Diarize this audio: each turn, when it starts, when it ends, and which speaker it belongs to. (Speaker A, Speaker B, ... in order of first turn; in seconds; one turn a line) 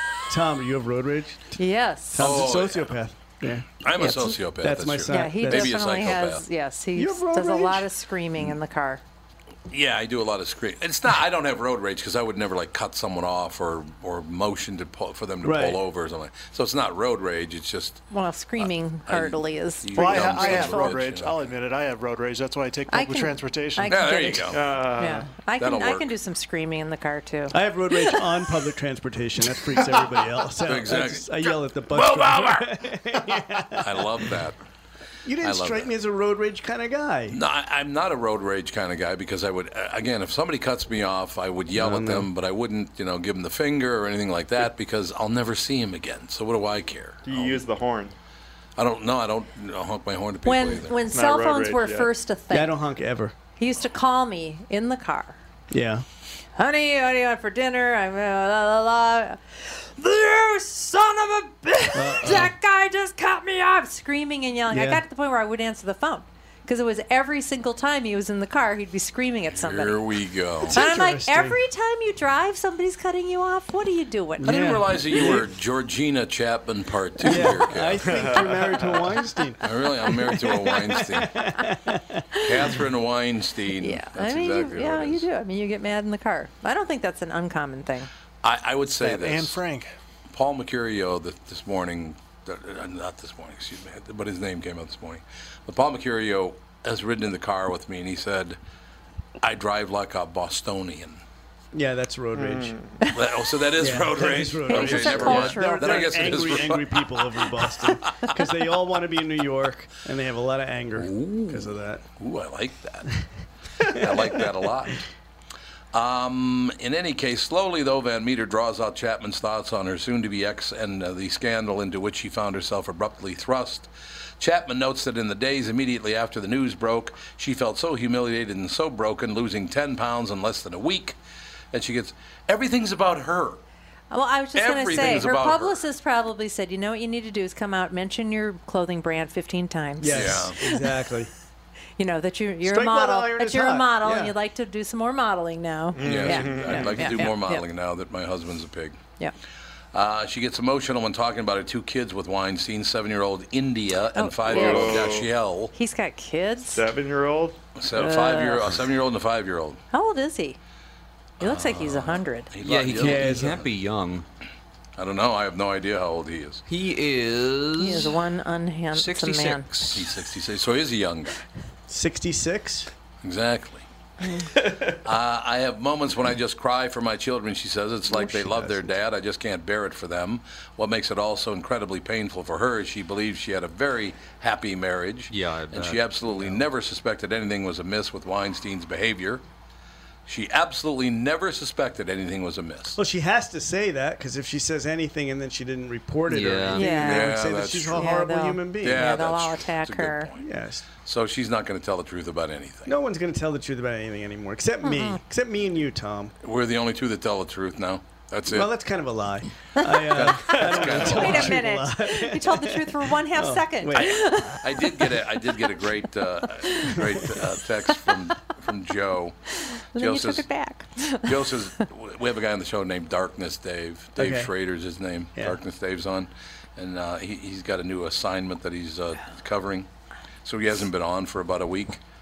Speaker A: 0.3-3.7
Speaker B: 1.6-2.4
Speaker C: 2.2-2.9
Speaker C: 3.8-6.5
Speaker B: 4.0-4.4
Speaker A: 4.5-5.8
Speaker B: 5.1-9.0
Speaker A: 7.0-7.9
Speaker C: 9.7-18.1
Speaker A: 15.4-15.8
Speaker B: 18.1-21.0
Speaker C: 18.6-21.5
Speaker D: 20.0-23.9
Speaker B: 22.9-28.2
Speaker C: 23.9-24.7
Speaker E: 24.5-25.3
Speaker C: 25.6-26.1
Speaker A: 27.5-34.1
Speaker C: 30.6-32.8
Speaker C: 33.8-34.6
Speaker A: 35.2-37.4
Speaker C: 35.4-35.9
Speaker C: 37.3-47.6
Speaker A: 41.7-42.3
Speaker E: 47.2-48.1
Speaker C: 48.8-51.0
Speaker B: 50.5-52.8
Speaker E: 51.1-52.1
Speaker A: 52.5-53.4
Speaker B: 53.6-55.4
Speaker A: 55.7-56.0
Speaker B: 56.6-70.0
Speaker A: 61.9-62.5
Speaker A: 64.7-65.0
Speaker C: 69.5-70.8
Speaker B: 70.7-74.7
Speaker A: 70.7-71.6
Speaker A: 74.4-75.5
Speaker C: 74.5-78.3
Speaker A: 77.2-82.2
Speaker E: 78.1-79.2
Speaker C: 79.6-81.5
Speaker C: 82.4-85.3
Speaker B: 83.8-88.1
Speaker C: 88.4-89.6
Speaker D: 89.0-89.9
Speaker C: 90.3-98.6
Speaker C: 99.4-101.2
Speaker A: 101.7-102.8
Speaker E: 102.3-103.0
Speaker C: 103.1-108.3
Speaker A: 103.8-112.0
Speaker B: 104.7-106.4
Speaker C: 111.0-113.1
Speaker C: 113.9-115.0
Speaker A: 114.0-114.4
Speaker C: 115.9-131.2
Speaker C: 131.7-133.6
Speaker B: 134.1-141.0
Speaker C: 134.6-135.8
Speaker A: 135.0-135.3
Speaker A: 140.0-141.3
Speaker C: 140.1-140.6
Speaker B: 142.0-147.6
Speaker A: 142.6-144.3
Speaker E: 146.0-147.0
Speaker C: 146.0-149.0
Speaker A: 146.6-147.2
Speaker C: 149.9-155.7
Speaker B: 154.2-155.2
Speaker E: 154.5-155.3
Speaker B: 155.7-156.8
Speaker E: 156.8-157.6
Speaker C: 157.8-159.8
Speaker B: 157.9-158.8
Speaker B: 159.9-160.6
Speaker B: 161.4-162.5
Speaker C: 161.6-163.7
Speaker F: 162.6-164.3
Speaker A: 163.0-163.5
Speaker C: 165.0-166.6
Speaker F: 166.7-168.2
Speaker B: 167.8-169.7
Speaker F: 168.9-170.1
Speaker C: 169.9-171.4
Speaker A: 171.9-172.9
Speaker C: 173.2-173.8
Speaker E: 174.6-174.9
Speaker C: 175.0-189.4
Speaker A: 178.1-179.0
Speaker F: 185.3-186.6
Speaker C: 190.3-193.0
Speaker A: 193.0-199.2
Speaker F: 196.3-196.8
Speaker B: 196.7-200.3
Speaker C: 196.9-198.1
Speaker C: 198.8-203.0
Speaker A: 200.4-200.9
Speaker A: 202.9-206.3
Speaker B: 204.8-205.2
Speaker C: 206.4-208.7
Speaker A: 208.5-214.1
Speaker C: 209.9-211.6
Speaker B: 210.5-215.6
Speaker C: 213.9-219.4
Speaker B: 216.6-217.0
Speaker B: 219.9-221.8
Speaker C: 219.9-220.5
Speaker C: 221.3-229.9
Speaker A: 224.2-224.5
Speaker C: 230.4-232.0